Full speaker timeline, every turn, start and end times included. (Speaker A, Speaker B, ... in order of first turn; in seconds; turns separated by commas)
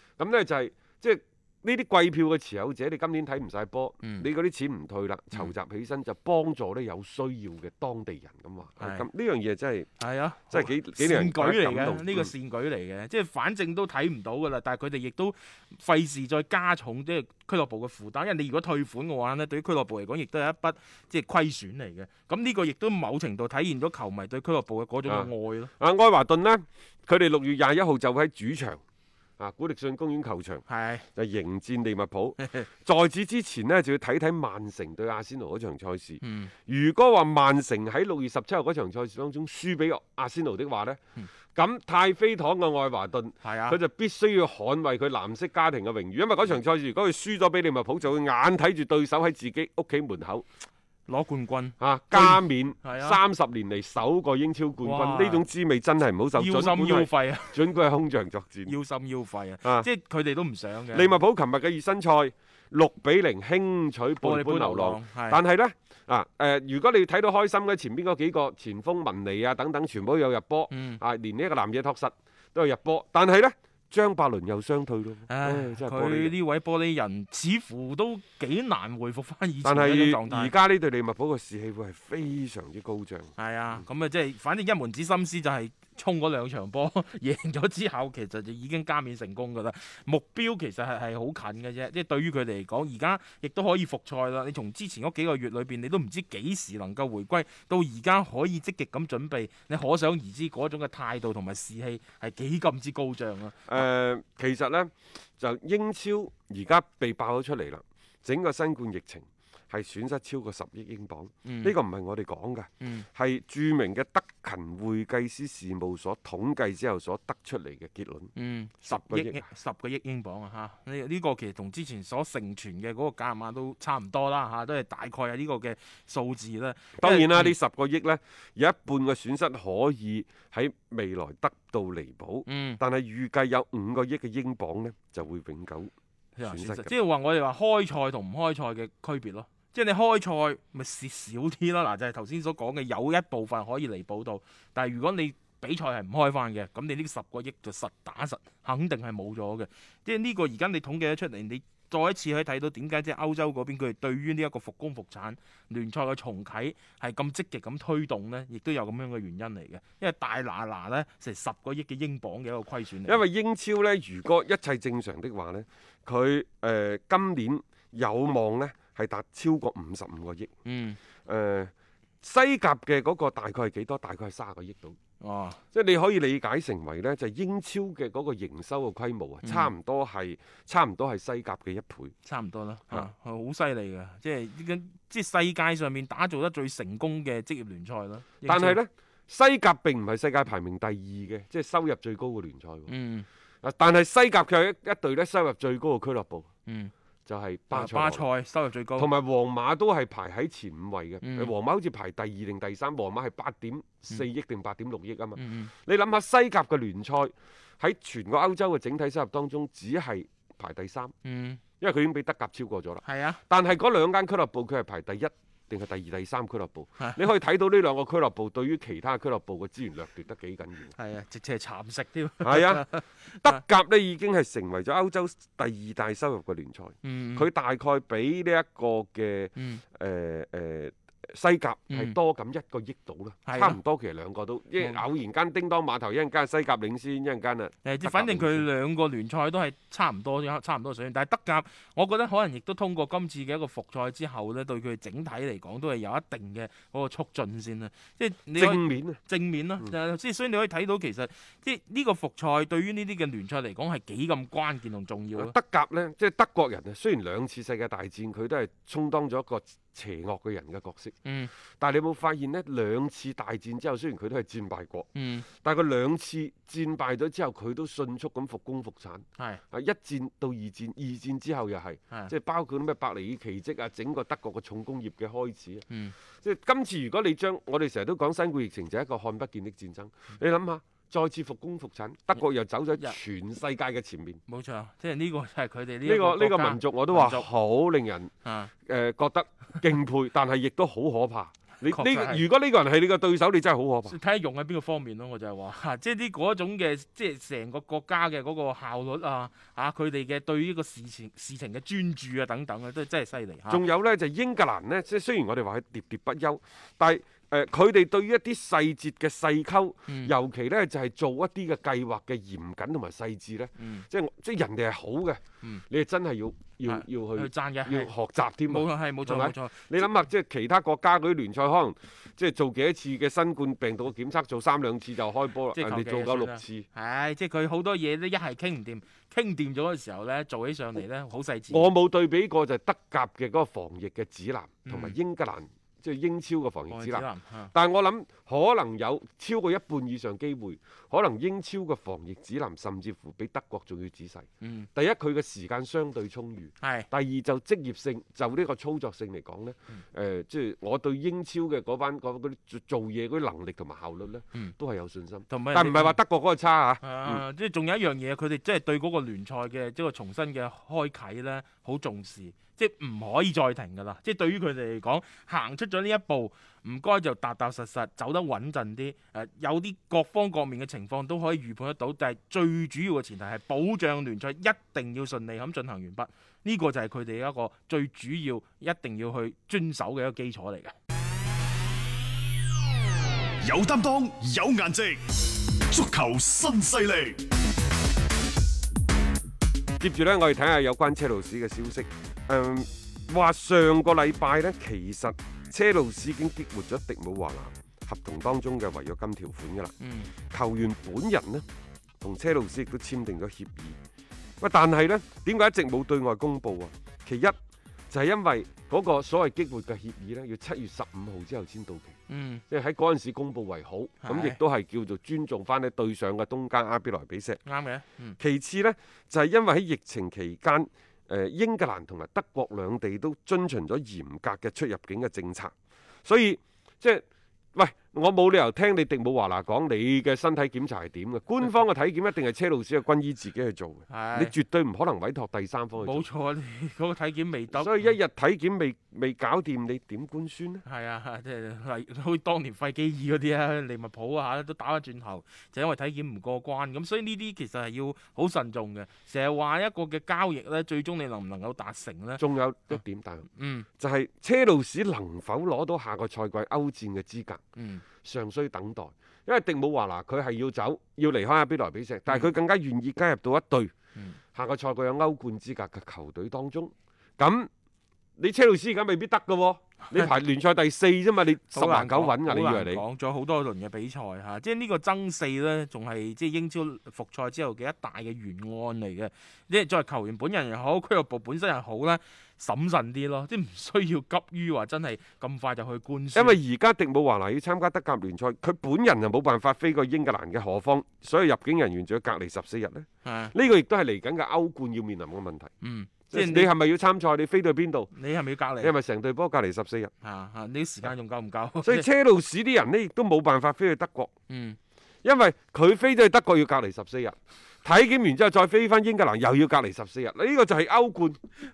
Speaker A: 0.2-9.9, Speaker B: 4.0-4.3, Speaker B: 8.8-9.1, Speaker B: 10.0-25.7, Speaker A: 10.5-12.3, Speaker A: 25.1-28.8, Speaker A: 29.4-30.6, Speaker B: 30.7-31.1, Speaker A: 31.1-41.0, Speaker B: 32.4-32.7, Speaker B: 36.2-36.5, Speaker A: 41.5-50.5, Speaker B: 43.4-43.8, Speaker B: 51.1-53.2, Speaker A: 51.8-58.8, Speaker B: 54.8-55.4, Speaker B: 56.4-57.6, Speaker B: 58.7-61.1, Speaker A: 60.9-76.3, Speaker B: 64.2-65.4, Speaker B: 70.7-71.0, Speaker B: 75.3-80.5, Speaker A: 79.6-83.8, Speaker B: 83.4-103.8, Speaker A: 103.7-118.3, Speaker B: 111.5-111.7, Speaker B: 112.8-113.1, Speaker B: 118.4-127.5, Speaker A: 118.9-119.4, Speaker A: 127.0-135.9, Speaker B: 132.5-132.8, Speaker B: 136.4-163.2, Speaker A: 136.4-136.9, Speaker A: 163.1-170.5, Speaker B: 170.6-171.0, Speaker A: 171.2-175.0, Speaker B: 175.2-175.6, Speaker A: 175.7-182.1, Speaker B: 179.4-179.7, Speaker B: 182.2-188.8, Speaker A: 188.5-192.9, Speaker B: 192.9-193.2, Speaker A: 193.6-196.5, Speaker B: 196.7-196.9, Speaker A: 197.2-198.2, Speaker B: 197.7-199.1, Speaker A: 199.0-211.1, Speaker B: 201.2-201.5, Speaker B: 205.4-205.7, Speaker B: 211.2-211.6, Speaker A: 211.8-220.9, Speaker B: 213.1-213.4, Speaker B: 220.9-223.6, Speaker A: 222.4-238.7, Speaker B: 227.0-227.5, Speaker B: 229.6-229.8, Speaker B: 231.9-232.2, Speaker B: 233.5-233.8, Speaker B: 237.8-255.6, Speaker A: 248.6-249.2, Speaker A: 255.3-261.2, Speaker B: 261.2-261.5, Speaker A: 261.8-275.9, Speaker B: 265.1-265.5, Speaker B: 275.9-276.1, Speaker A: 276.4-284.4, Speaker B: 284.5-287.5, Speaker A: 286.1-288.3, Speaker B: 288.4-288.7, Speaker A: 288.8-294.2, Speaker B: 291.9-292.4, Speaker B: 294.1-303.8, Speaker A: 303.7-326.9, Speaker B: 310.1-310.3, Speaker B: 313.8-314.1, Speaker B: 316.9-318.1, Speaker B: 318.7-320.1, Speaker B: 325.8-331.9, Speaker A: 331.7-357.4, Speaker B: 334.9-335.1, Speaker B: 336.9-337.7, Speaker B: 344.6-344.9, Speaker B: 346.8-347.1, Speaker B: 355.5-356.1, Speaker B: 357.0-380.9, Speaker C: 383.6-385.2, Speaker C: 385.9-387.4, Speaker A: 390.0-401.6, Speaker B: 400.0-400.3, Speaker A: 402.2-404.0, Speaker A: 404.6-407.6, Speaker A: 408.1-412.1, Speaker B: 412.3-412.6, Speaker A: 412.7-417.6, Speaker B: 414.2-414.6, Speaker B: 417.6-418.4, Speaker A: 418.4-425.7, Speaker A: 426.2-427.2, Speaker A: 427.8-436.2, Speaker B: 434.1-434.5, Speaker B: 436.0-438.1, Speaker A: 437.7-440.8, Speaker B: 440.9-453.0, Speaker A: 452.4-453.5, Speaker B: 453.6-453.9, Speaker A: 454.0-457.6, Speaker B: 457.8-458.0, Speaker A: 458.2-463.9, Speaker A: 464.5-467.7, Speaker A: 468.4-473.0, Speaker B: 471.7-486.6, Speaker A: 486.4-495.7, Speaker B: 493.2-493.5, Speaker B: 495.8-496.7, Speaker A: 496.3-498.1, Speaker B: 498.1-498.9, Speaker A: 498.8-500.1, Speaker B: 500.2-502.1, Speaker A: 501.8-504.3, Speaker B: 504.5-504.8, Speaker A: 505.2-511.4